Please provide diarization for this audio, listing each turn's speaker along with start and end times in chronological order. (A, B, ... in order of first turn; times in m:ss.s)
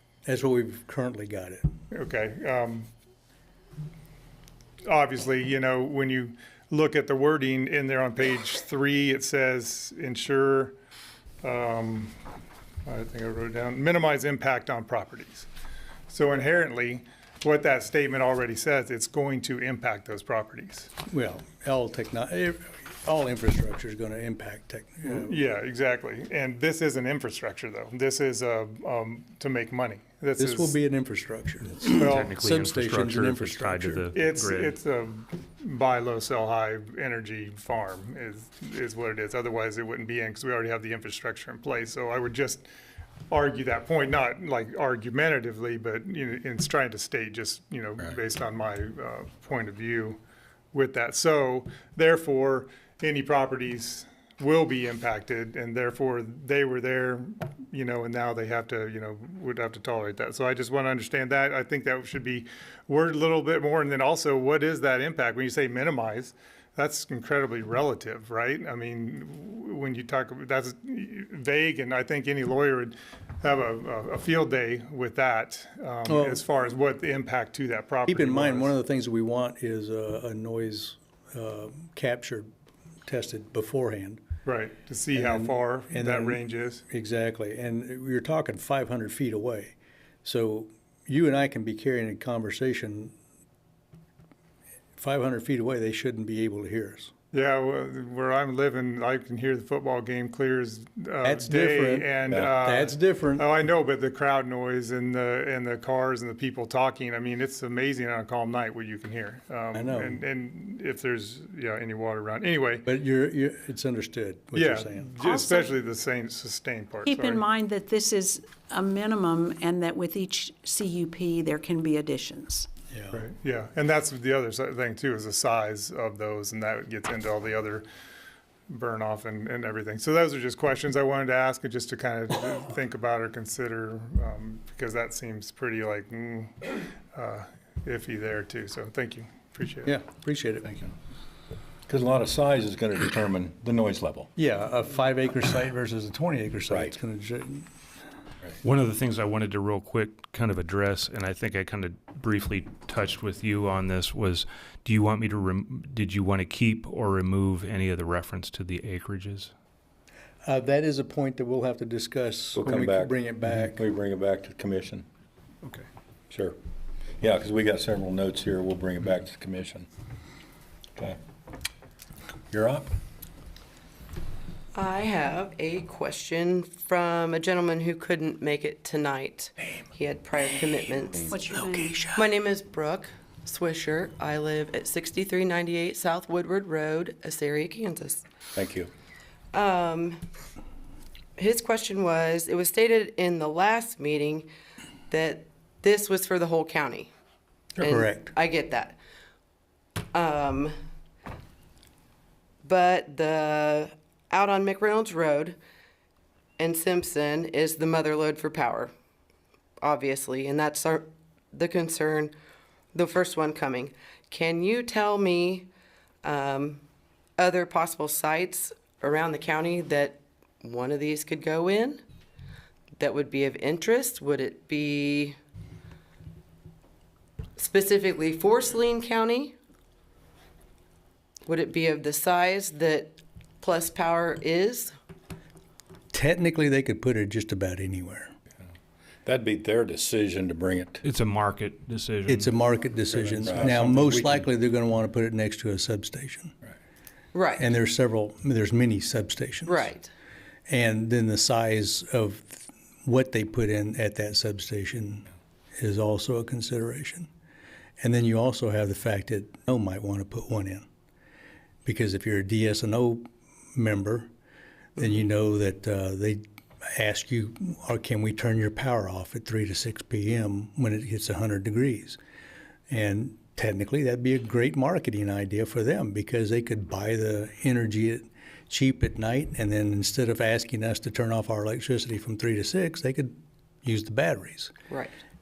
0:00.2-0:01.7 A
0:01.9-0:02.9 B
0:04.8-0:10.7 B
0:11.4-0:12.2 B
0:12.8-0:15.5 B
0:16.1-0:20.9 B
0:21.1-0:25.4 A
0:25.0-0:30.8 B
0:30.4-0:34.1 A
0:31.9-0:32.3 B
0:32.0-0:34.7 C
0:34.1-0:42.7 B
0:43.3-0:50.2 B
0:50.7-1:18.8 B
1:16.1-1:16.4 A
1:18.0-1:22.5 A
1:23.0-1:24.2 A
1:24.4-1:26.8 B
1:25.1-1:33.1 A
1:35.0-1:37.1 A
1:37.3-1:52.9 B
1:41.2-1:43.5 A
1:49.7-1:50.2 A
1:52.8-1:55.2 A
1:54.5-1:57.4 B
1:55.2-1:55.7 D
1:57.0-2:02.7 D
2:02.9-2:03.2 A
2:03.1-2:07.8 B
2:08.7-2:20.0 B
2:19.8-2:20.8 A
2:21.9-2:24.3 E
2:24.4-2:27.7 A
2:26.7-2:27.0 E
2:28.6-2:39.5 C
2:40.4-2:43.8 A
2:42.6-2:45.0 E
2:46.3-2:46.6 E
2:47.2-2:49.9 E
2:52.5-2:52.9 E
2:54.7-3:08.2 F
3:01.3-3:02.1 D
3:01.5-3:02.2 A
3:08.5-3:08.9 E
3:09.5-3:10.2 F
3:11.4-3:14.5 F
3:15.1-3:17.1 F
3:17.8-3:19.0 F
3:17.8-3:18.3 A
3:20.1-3:20.7 F
3:22.6-3:25.6 F
3:26.6-3:28.9 F
3:29.8-3:32.3 F
3:32.9-3:35.7 F
3:36.2-3:36.8 F
3:37.4-3:42.0 F
3:43.0-3:45.4 F
3:47.6-3:49.5 F
3:51.4-3:54.9 F
3:56.1-3:58.3 A
3:59.2-4:01.0 E
4:01.0-4:02.6 C
4:02.3-4:06.5 A
4:03.2-4:04.4 C
4:03.4-4:04.2 E
4:07.3-4:07.7 F
4:07.6-4:09.9 A
4:09.6-4:10.1 F
4:10.7-4:15.2 A
4:15.8-4:17.3 A
4:18.0-4:20.8 A
4:21.8-4:24.3 A
4:25.0-4:32.2 A
4:32.9-4:44.7 A